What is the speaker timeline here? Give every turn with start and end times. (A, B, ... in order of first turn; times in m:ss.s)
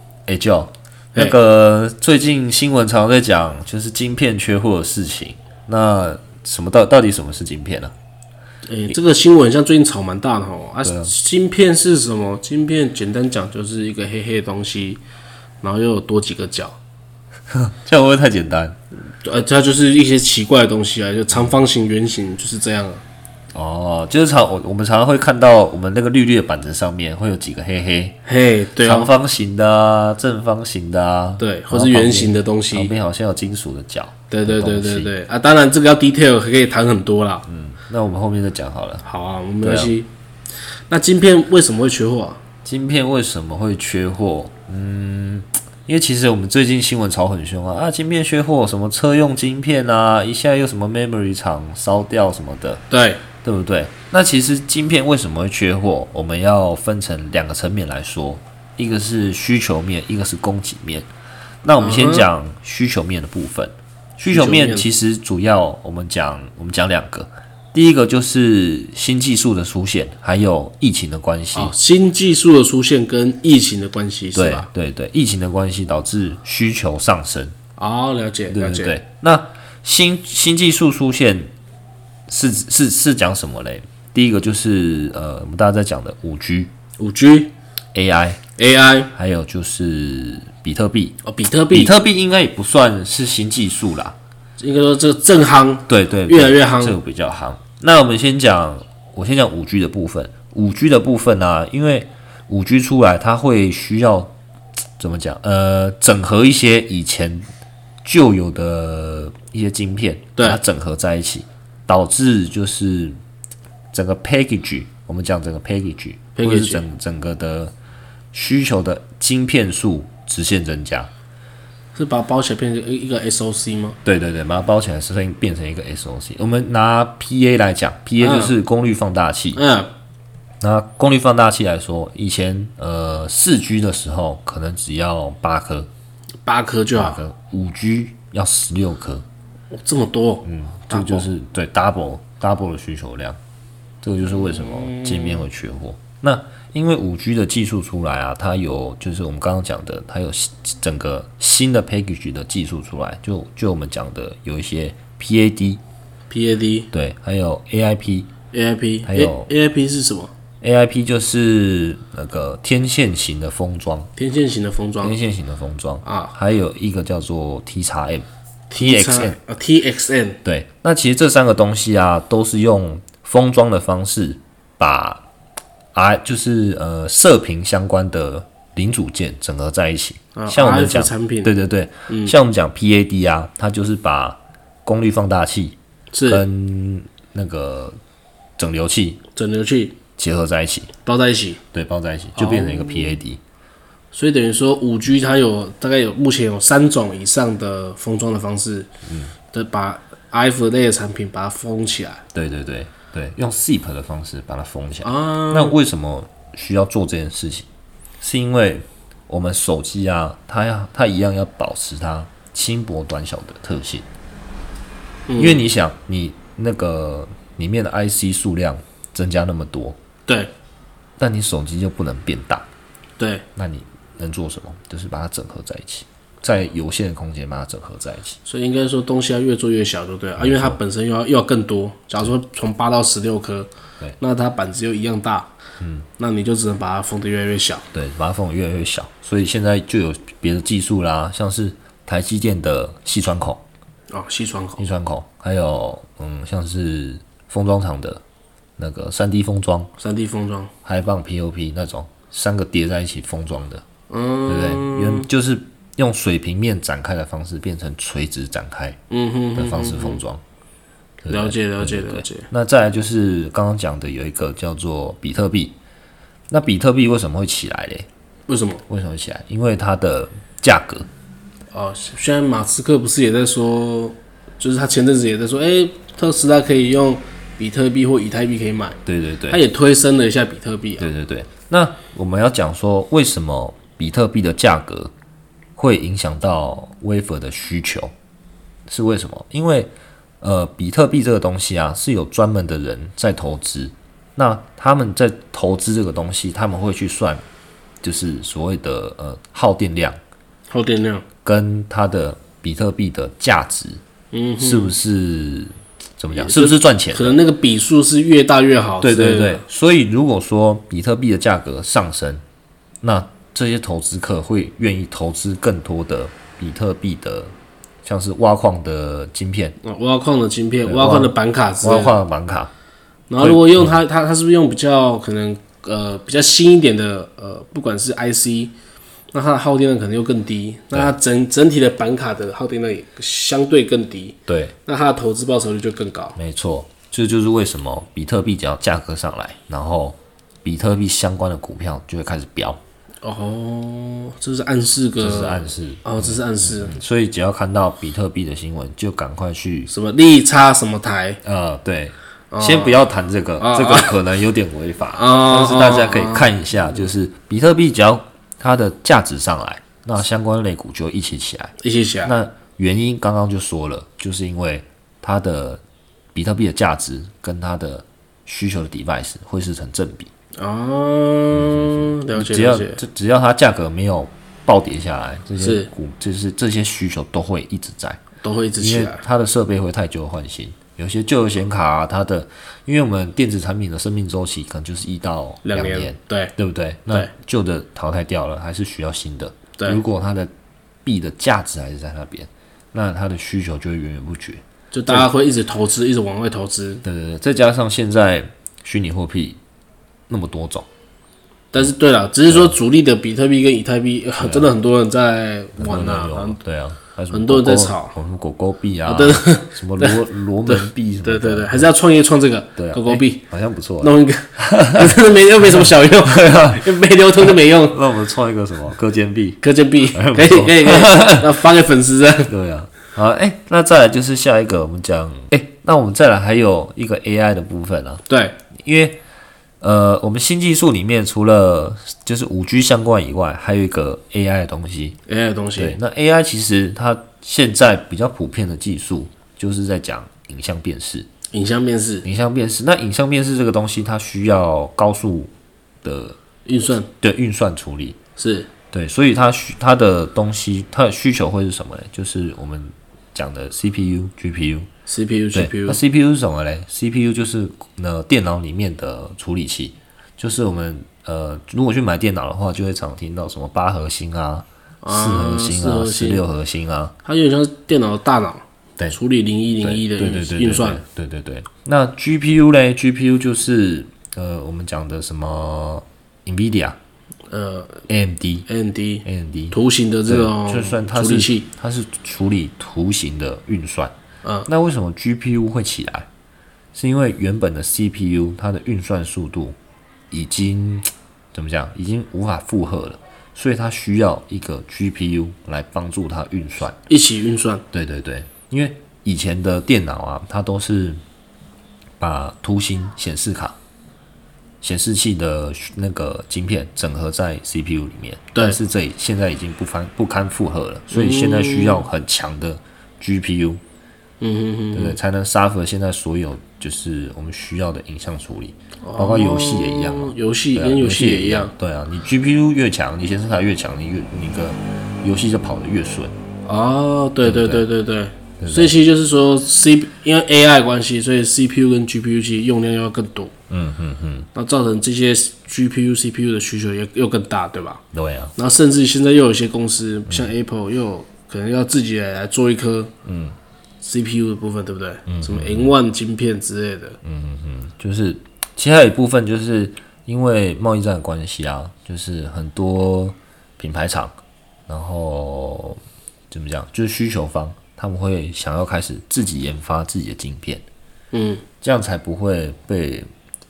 0:00.3-0:07.9 A
0:08.6-0:15.0 B
0:10.8-0:11.1 A
0:15.6-0:16.8 B
0:17.5-0:18.8 A
0:19.1-0:23.0 B
0:23.5-0:28.2 A
0:28.2-0:29.1 B
0:28.8-0:35.1 A
0:31.4-0:32.9 B
0:34.3-0:37.4 B
0:37.4-0:39.0 A
0:39.0-0:40.1 B
0:39.6-0:39.9 A
0:40.9-0:42.4 B
0:42.6-0:52.8 A
0:52.9-0:53.2 B
0:53.4-1:01.1 A
1:01.6-1:11.7 A
1:01.8-1:02.2 B
1:04.3-1:04.9 B
1:11.5-1:14.7 B
1:14.3-1:17.5 A
1:17.8-1:18.9 B
1:18.5-1:21.5 A
1:22.3-1:26.7 A
1:27.0-1:27.5 B
1:27.9-1:28.4 A
1:28.6-1:29.1 B
1:29.1-1:31.2 A
1:31.2-1:31.9 B
1:31.7-1:34.2 A
1:34.6-1:37.0 B
1:35.9-1:44.3 A
1:45.0-1:47.5 A
1:48.0-1:53.2 A
1:53.9-1:57.7 A
1:56.4-1:56.8 B
1:58.3-2:01.1 A
2:01.9-2:04.0 B
2:04.0-2:09.6 A
2:08.2-2:08.5 B
2:09.5-2:09.9 B
2:10.6-2:15.9 A
2:16.4-2:17.2 B
2:16.9-2:19.2 A
2:19.7-2:21.3 B
2:20.4-2:23.4 A
2:24.0-2:35.8 A
2:24.2-2:25.4 B
2:36.3-2:36.9 B
2:36.9-2:38.3 A
2:38.5-2:40.3 B
2:39.0-2:39.5 A
2:40.6-2:44.1 A
2:44.2-2:45.2 B
2:45.0-2:49.4 A
2:46.0-2:46.3 B
2:48.7-2:50.4 B
2:50.4-2:55.2 A
2:55.9-3:08.0 A
3:00.3-3:01.5 B
3:02.1-3:02.3 B
3:06.1-3:06.4 B
3:08.6-3:09.2 A
3:09.3-3:10.0 B
3:10.2-3:10.9 A
3:11.0-3:11.6 B
3:11.7-3:13.4 A
3:12.4-3:13.2 B
3:14.1-3:18.9 B
3:19.0-3:19.3 A
3:19.5-3:22.2 B
3:22.3-3:27.6 A
3:25.0-3:25.8 B
3:28.2-3:34.0 A
3:35.3-3:35.6 B
3:35.4-3:40.0 A
3:40.3-3:40.5 B
3:41.2-3:42.7 A
3:43.2-3:43.4 B
3:43.6-3:48.4 A
3:48.4-3:55.5 B
3:50.4-3:50.8 A
3:55.8-3:56.1 A
3:56.2-3:57.8 B
3:57.9-4:03.6 A
4:04.1-4:04.8 B
4:04.8-4:08.2 A
4:08.8-4:09.9 A
4:10.0-4:10.7 B
4:10.8-4:13.8 A
4:14.1-4:15.3 B
4:14.4-4:19.0 A
4:19.1-4:20.2 B
4:19.5-4:20.4 A
4:21.2-4:25.7 A
4:21.3-4:22.5 B
4:26.5-4:28.1 A
4:28.5-4:28.8 B
4:28.9-4:31.1 A
4:31.7-4:39.0 B
4:39.0-4:39.6 A
4:39.5-4:41.1 B
4:41.0-4:45.1 A
4:45.8-4:48.1 A
4:48.9-4:57.4 A
4:58.0-5:00.2 A
5:00.7-5:01.2 B
5:01.4-5:04.0 A
5:04.3-5:04.9 B
5:04.6-5:07.4 A
5:06.3-5:09.6 B
5:09.0-5:12.4 A
5:13.0-5:17.5 A
5:18.0-5:19.8 A
5:19.8-5:22.2 B
5:20.8-5:22.7 A
5:23.3-5:28.7 B
5:23.4-5:24.0 A
5:29.3-5:36.4 B
5:34.5-5:34.7 A
5:36.4-5:42.8 A
5:43.2-5:47.0 B
5:45.2-5:49.9 A
5:49.9-5:51.4 B
5:51.4-6:05.8 A
5:52.5-5:53.0 B
5:53.6-5:54.1 B
5:55.1-5:56.5 B
6:01.8-6:02.3 B
6:06.3-6:10.3 A
6:10.6-6:13.0 B
6:11.5-6:18.2 A
6:15.6-6:15.9 B
6:18.4-6:19.2 B
6:18.8-6:30.5 A
6:25.6-6:26.5 B
6:31.0-6:35.2 A
6:34.9-6:37.0 B
6:37.0-6:39.6 A
6:40.3-6:40.9 A
6:41.7-6:46.6 B
6:42.5-6:42.7 A
6:44.4-6:44.7 A
6:45.8-6:51.9 A
6:47.3-6:48.1 B
6:49.0-6:53.4 B
6:52.8-6:55.2 A
6:54.0-6:58.0 B
6:55.8-6:59.6 A
6:59.6-7:02.5 B
7:00.1-7:01.6 A
7:02.5-7:09.2 A
7:08.3-7:08.6 B
7:09.8-7:15.2 A
7:15.3-7:16.0 B
7:15.7-7:21.3 A
7:21.5-7:22.2 B
7:22.2-7:25.5 A
7:26.0-7:26.4 A
7:26.6-7:27.1 B
7:27.2-7:28.2 A
7:28.4-7:28.7 B
7:28.9-7:34.9 A
7:35.1-7:36.0 B
7:35.5-7:47.1 A
7:45.0-7:46.4 B
7:47.2-7:51.0 B
7:49.8-7:57.0 A
7:57.5-7:58.0 B
7:58.1-7:58.7 A
7:58.7-8:01.7 B
7:59.2-8:04.1 A
8:04.6-8:06.3 A
8:06.9-8:09.8 A
8:10.3-8:17.0 A
8:17.1-8:17.8 B
8:17.9-8:21.2 A
8:22.2-8:23.8 A
8:24.8-8:33.8 A
8:31.1-8:32.1 B
8:34.4-8:35.2 B
8:34.9-8:46.3 A
8:39.0-8:41.7 B
8:46.6-8:53.5 B
8:47.4-8:47.9 A
8:48.6-8:48.9 A
8:53.7-8:54.5 A
8:54.5-8:58.0 B
8:58.1-8:58.5 A
8:58.6-9:03.1 B
9:03.2-9:03.5 A
9:04.0-9:07.2 B
9:05.3-9:05.9 A
9:07.2-9:14.4 A
9:14.9-9:16.0 A
9:16.5-9:20.8 A
9:21.3-9:21.6 B
9:21.8-9:23.3 A